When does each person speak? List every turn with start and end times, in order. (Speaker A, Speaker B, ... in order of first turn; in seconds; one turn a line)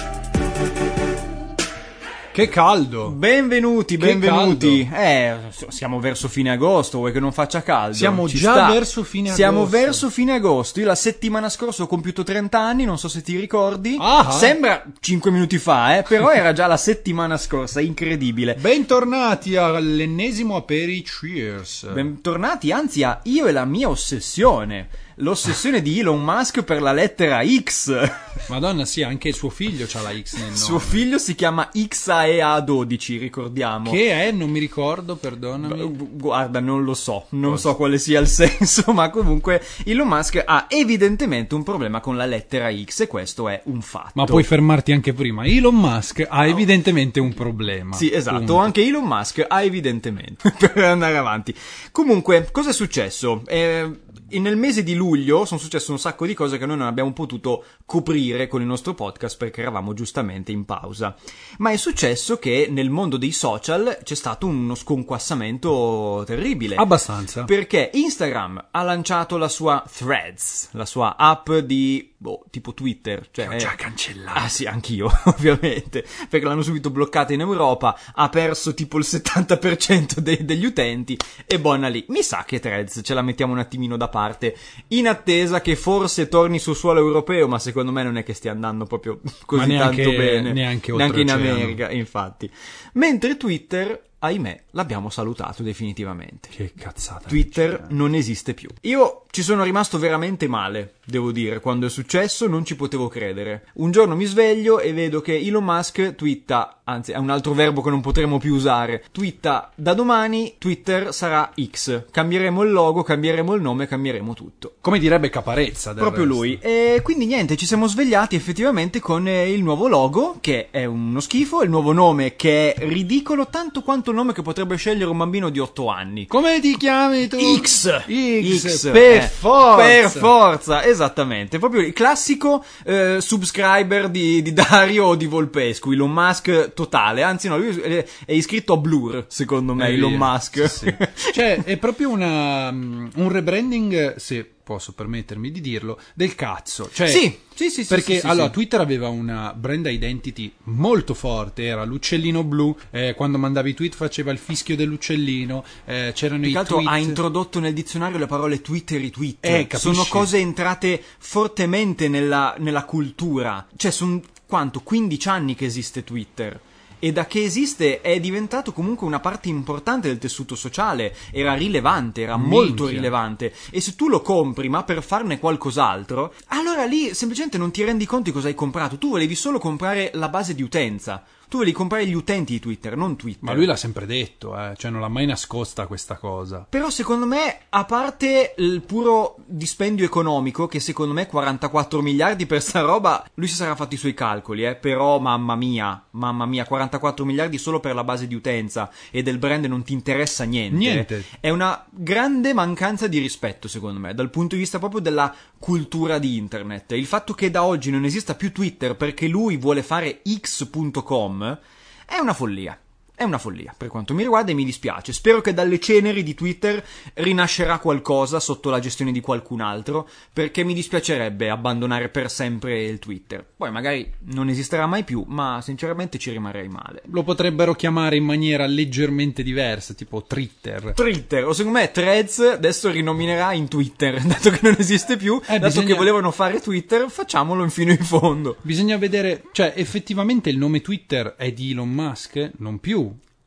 Speaker A: 2.3-3.2
Speaker B: 3.0-18.6
Speaker A: 4.0-4.8
Speaker A: 7.9-10.0
Speaker A: 14.0-14.6
Speaker A: 18.6-22.1
Speaker B: 21.9-28.3
Speaker A: 28.5-31.0
Speaker B: 30.4-34.0
Speaker A: 33.8-35.9
Speaker B: 35.6-44.5
Speaker A: 44.1-48.7
Speaker B: 47.9-66.8
Speaker A: 66.7-67.5
Speaker B: 67.4-73.7
Speaker A: 73.4-74.5
Speaker B: 74.3-96.5
Speaker A: 89.5-91.8
Speaker A: 96.5-97.8
Speaker B: 97.3-114.8
Speaker A: 114.8-116.6
Speaker B: 116.0-126.3
Speaker A: 126.3-130.3
Speaker B: 127.3-141.6
Speaker A: 139.8-147.3
Speaker B: 147.0-148.5
Speaker A: 147.9-157.2
Speaker B: 156.4-183.7
Speaker A: 159.4-160.3
Speaker A: 172.3-173.1
Speaker A: 183.4-186.7
Speaker B: 186.7-227.1
Speaker A: 200.7-201.3
Speaker A: 227.1-231.0
Speaker B: 230.9-238.6
Speaker A: 235.5-236.1
Speaker A: 238.6-243.2